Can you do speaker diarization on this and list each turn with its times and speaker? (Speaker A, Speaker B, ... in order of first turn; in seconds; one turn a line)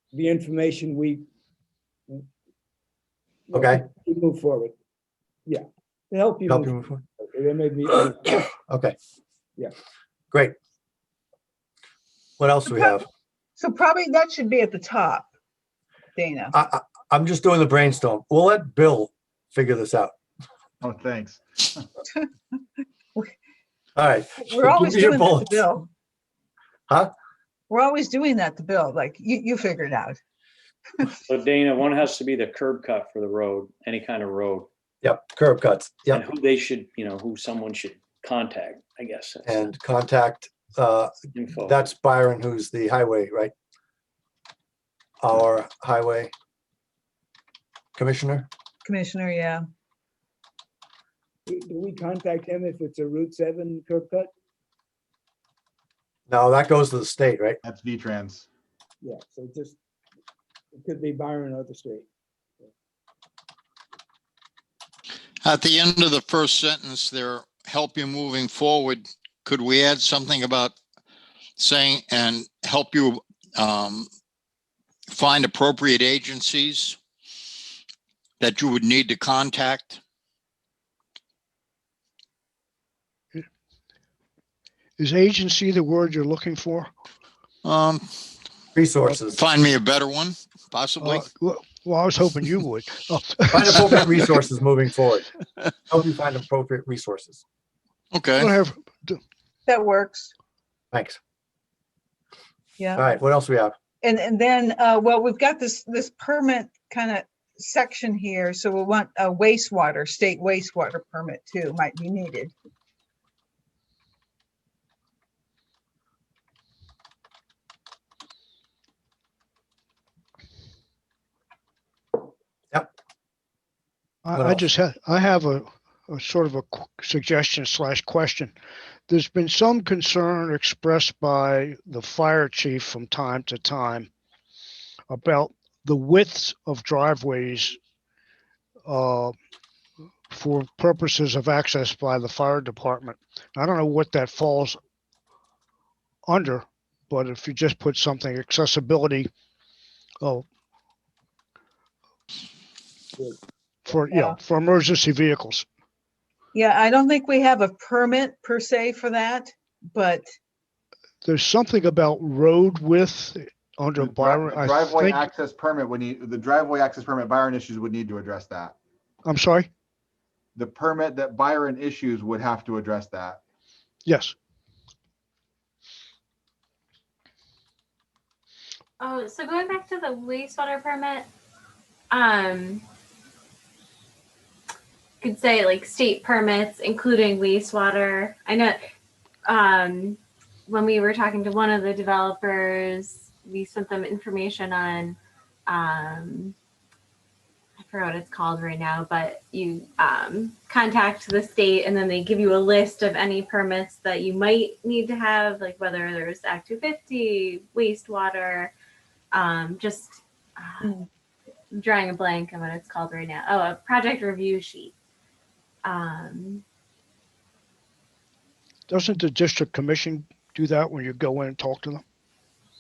Speaker A: 0.2-1.2
Speaker B: 3.5-3.9
Speaker A: 4.0-4.7
Speaker A: 6.1-6.6
Speaker B: 6.5-7.0
Speaker A: 7.2-8.2
Speaker B: 8.7-8.9
Speaker B: 12.4-13.1
Speaker C: 12.7-13.0
Speaker C: 13.6-15.3
Speaker C: 16.2-16.5
Speaker B: 16.5-20.1
Speaker D: 20.8-21.4
Speaker B: 24.0-25.6
Speaker C: 24.4-25.9
Speaker C: 27.7-30.2
Speaker E: 31.3-34.7
Speaker B: 35.0-36.2
Speaker E: 36.1-39.7
Speaker B: 39.5-43.5
Speaker E: 41.3-41.9
Speaker B: 45.2-46.3
Speaker B: 48.0-48.5
Speaker C: 48.8-49.6
Speaker A: 51.5-54.3
Speaker B: 56.3-57.6
Speaker D: 57.6-58.5
Speaker A: 59.0-59.8
Speaker A: 60.8-62.1
Speaker F: 65.4-70.8
Speaker F: 71.6-74.1
Speaker F: 75.1-77.0
Speaker F: 78.4-80.0
Speaker G: 85.0-86.9
Speaker F: 87.6-88.2
Speaker B: 88.8-89.5
Speaker F: 89.3-91.3
Speaker G: 91.0-94.0
Speaker B: 93.5-95.2
Speaker B: 95.9-97.4
Speaker F: 98.1-98.5
Speaker G: 98.3-99.2
Speaker C: 99.7-100.3
Speaker B: 100.9-101.2
Speaker C: 102.8-103.0
Speaker B: 103.0-103.8
Speaker C: 104.0-112.5
Speaker G: 124.2-128.6
Speaker B: 124.4-124.7
Speaker G: 129.1-134.1
Speaker G: 135.1-137.8
Speaker G: 138.9-139.3
Speaker G: 140.3-144.8
Speaker G: 146.3-149.3
Speaker G: 150.2-150.5
Speaker G: 153.8-155.7
Speaker C: 154.1-154.4
Speaker C: 156.5-160.3
Speaker G: 161.2-165.3
Speaker D: 164.1-168.7
Speaker G: 169.2-169.7
Speaker D: 170.6-173.4
Speaker G: 174.1-174.3
Speaker H: 179.0-181.3
Speaker H: 182.1-182.8
Speaker H: 185.2-188.8
Speaker H: 189.5-196.6
Speaker H: 197.8-208.7
Speaker H: 209.3-211.0
Speaker H: 211.7-214.9
Speaker H: 215.8-216.6
Speaker G: 218.9-222.0